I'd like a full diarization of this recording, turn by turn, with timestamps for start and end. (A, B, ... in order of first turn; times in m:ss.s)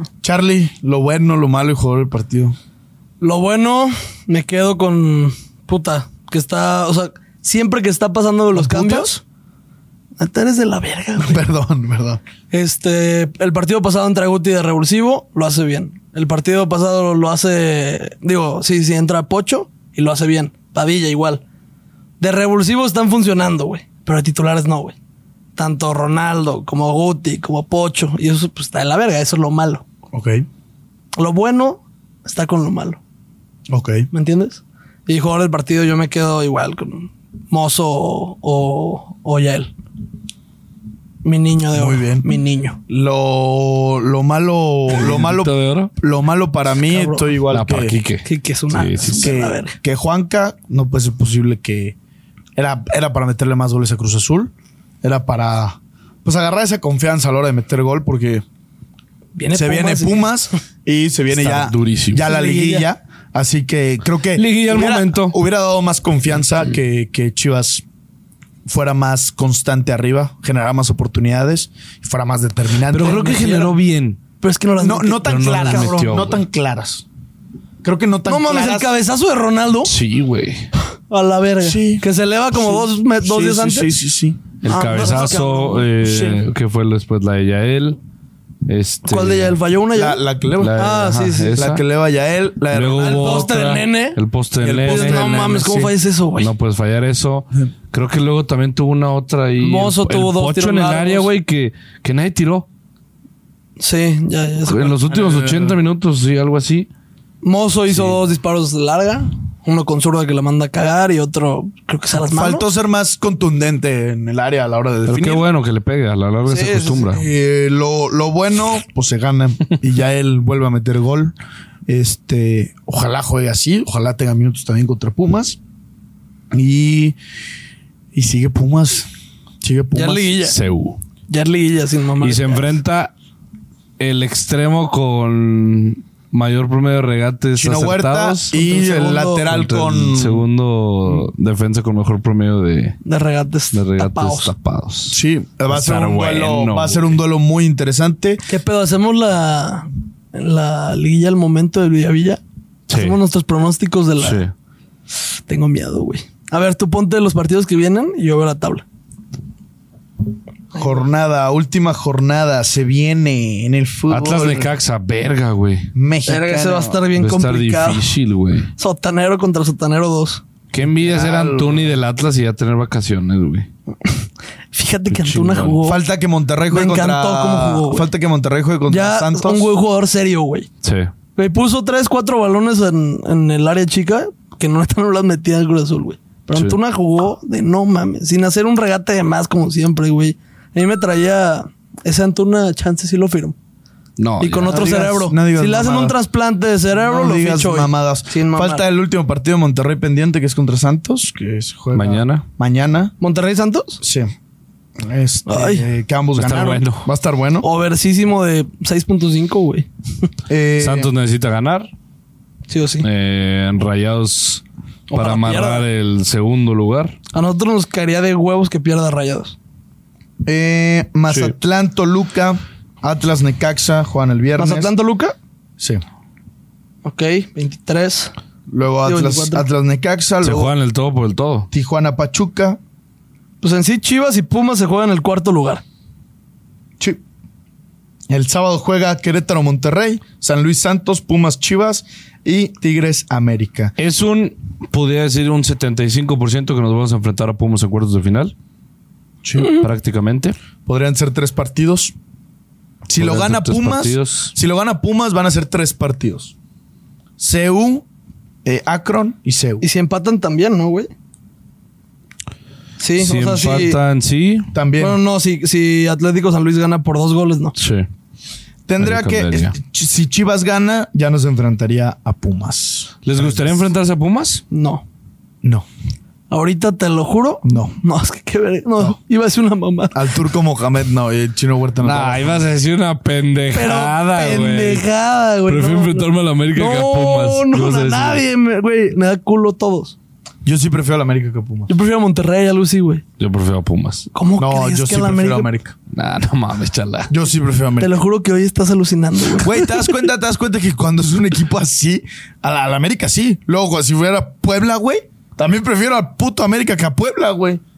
0:00.2-0:02.5 A
0:03.2-0:09.2 B
0:08.5-0:09.1 A
0:10.2-0:11.4 B
0:11.2-0:12.2 A
0:12.5-0:21.4 B
0:22.2-0:25.0 B
0:25.6-0:29.8 B
0:30.1-0:30.4 A
0:31.1-0:33.0 B
0:33.7-0:34.1 A
0:34.1-0:39.7 B
0:41.2-0:42.8 B
0:41.7-0:42.4 A
0:42.9-0:48.0 A
0:44.9-0:45.9 C
0:46.9-0:47.3 B
0:47.5-0:49.3 C
0:48.2-0:49.8 B
0:49.2-0:52.0 A
0:52.6-0:58.4 A
0:59.4-1:00.3 B
0:59.5-1:07.8 A
1:01.3-1:02.2 C
1:02.2-1:02.9 B
1:04.3-1:05.4 C
1:08.6-1:13.6 A
1:12.9-1:14.2 C
1:13.0-1:13.7 B
1:14.4-1:16.0 B
1:14.8-1:17.0 A
1:15.2-1:16.4 C
1:17.8-1:18.9 A
1:18.2-1:19.9 B
1:19.8-1:20.7 C
1:21.1-1:23.9 B
1:21.6-1:24.4 A
1:24.6-1:28.0 C
1:24.6-1:25.9 B
1:26.0-1:26.5 A
1:28.6-1:29.6 C
1:29.0-1:30.2 B
1:29.9-1:30.8 A
1:30.6-1:31.8 C
1:30.7-1:31.6 B
1:31.5-1:33.5 A
1:32.7-1:35.2 C
1:33.0-1:34.2 B
1:34.6-1:35.9 A
1:34.8-1:36.5 B
1:36.4-1:42.6 C
1:39.6-1:41.3 B
1:43.8-1:45.1 B
1:44.6-1:46.9 C
1:45.1-1:45.8 A
1:47.4-1:52.6 B
1:47.9-1:48.2 C
1:52.2-1:55.4 A
1:55.1-1:57.2 C
1:56.5-1:57.1 B
1:57.0-2:01.3 A
2:01.9-2:05.6 A
2:06.5-2:07.2 A
2:08.1-2:09.1 A
2:09.6-2:10.3 A
2:09.9-2:10.6 B
2:10.4-2:11.0 C
2:11.3-2:12.7 B
2:12.2-2:13.1 C
2:14.0-2:18.5 C
2:17.5-2:20.4 A
2:18.5-2:19.5 B
2:19.4-2:23.0 C
2:23.0-2:24.5 B
2:23.7-2:27.2 C
2:25.1-2:28.4 A
2:28.5-2:32.4 B
2:32.9-2:33.2 C
2:32.9-2:34.4 B
2:34.2-2:34.5 C
2:35.5-2:38.8 B
2:40.7-2:44.7 A
2:44.1-2:45.9 C
2:45.9-2:47.0 A
2:46.2-2:48.1 B
2:47.1-2:48.7 C
2:48.8-2:50.4 B
2:50.7-2:53.7 C
2:50.8-2:52.0 A
2:54.0-2:56.0 B
2:55.1-2:55.8 C
2:55.8-2:59.7 A
2:56.7-2:58.1 B
2:58.9-3:00.7 B
3:00.8-3:01.1 C
3:01.4-3:13.6 B
3:14.2-3:14.9 C
3:14.4-3:18.8 B
3:14.7-3:16.1 A
3:17.0-3:23.1 A
3:21.9-3:22.4 C
3:23.2-3:24.0 B
3:24.0-3:24.3 A
3:25.0-3:27.7 A
3:25.4-3:25.9 B
3:26.4-3:27.1 C
3:27.6-3:29.9 B
3:30.5-3:31.1 A
3:30.8-3:31.9 C
3:32.7-3:33.1 B
3:33.0-3:37.2 C
3:35.1-3:35.8 B
3:37.3-3:39.6 B
3:40.4-3:44.9 A
3:41.3-3:41.5 C
3:44.6-3:45.3 B
3:47.0-3:48.3 B
3:48.7-3:50.7 A
3:49.0-3:49.7 B
3:50.4-3:51.7 C
3:51.7-3:52.8 A
3:53.6-3:55.8 B
3:58.3-4:03.9 A
4:04.0-4:08.5 C
4:09.4-4:09.8 A
4:09.6-4:10.6 C
4:10.8-4:12.1 A
4:13.1-4:16.5 A
4:13.2-4:14.5 C
4:17.4-4:18.0 A
4:18.6-4:19.8 A
4:19.8-4:21.1 B
4:23.0-4:24.0 B
4:23.2-4:24.7 C
4:24.7-4:25.2 A
4:25.0-4:27.8 B
4:27.8-4:28.1 C
4:28.9-4:33.9 A
4:29.0-4:29.7 C
4:33.2-4:34.6 C
4:34.7-4:35.0 B
4:36.5-4:40.2 B
4:37.6-4:38.0 A
4:40.1-4:42.6 A
4:42.0-4:45.0 C
4:43.7-4:50.1 B
4:45.7-4:48.4 C
4:50.6-4:51.9 A
4:51.9-4:53.2 B
4:53.4-4:54.3 C
4:54.3-4:55.7 B
4:54.6-4:55.9 A
4:56.1-4:57.3 C
4:57.3-4:58.2 A
4:58.0-5:00.2 B
4:59.6-5:07.8 A